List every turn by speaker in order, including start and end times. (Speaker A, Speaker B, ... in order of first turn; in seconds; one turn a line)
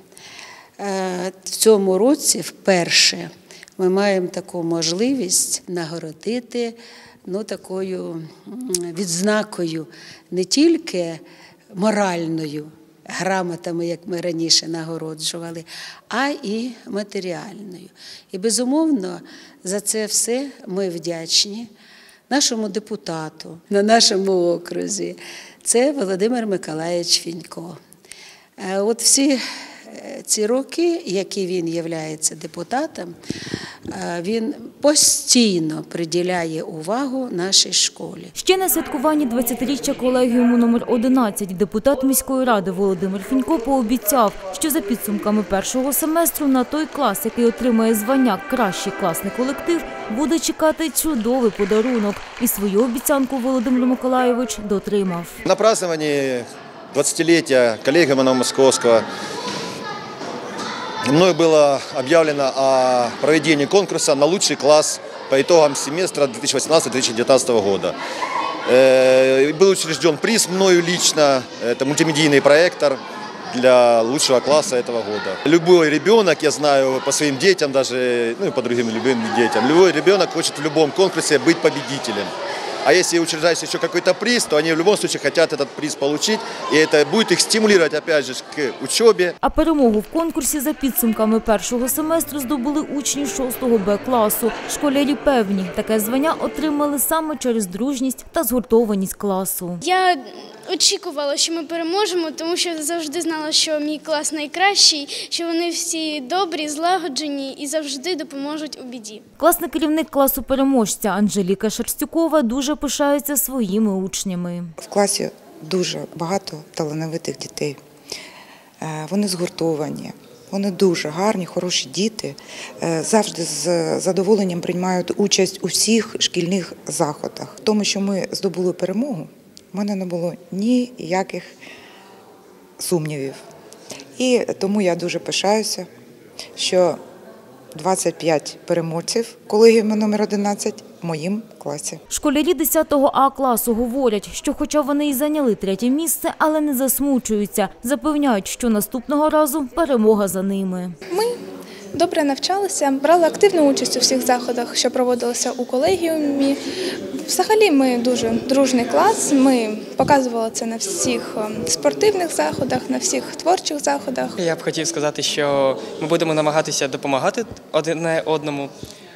Speaker A: 0.8-11.2
Speaker A: 11.7-21.7
Speaker A: 22.3-27.8
Speaker A: 28.6-33.1
Speaker A: 33.9-38.3
Speaker B: 38.4-55.4
Speaker C: 55.5-59.0
Speaker C: 61.1-67.9
Speaker C: 68.7-73.0
Speaker C: 73.5-82.3
Speaker C: 82.8-89.3
Speaker B: 89.4-99.8
Speaker D: 99.8-100.2
Speaker D: 100.7-109.2
Speaker B: 109.4-114.7
Speaker E: 114.8-117.8
Speaker E: 118.8-131.6
Speaker E: 132.8-133.4
Speaker E: 134.2-135.9
Speaker E: 136.6-137.0
Speaker E: 137.7-142.0
Speaker B: 142.1-150.9
Speaker F: 151.1-151.3
Speaker F: 151.9-156.6
Speaker F: 157.2-164.4
Speaker G: 164.4-168.7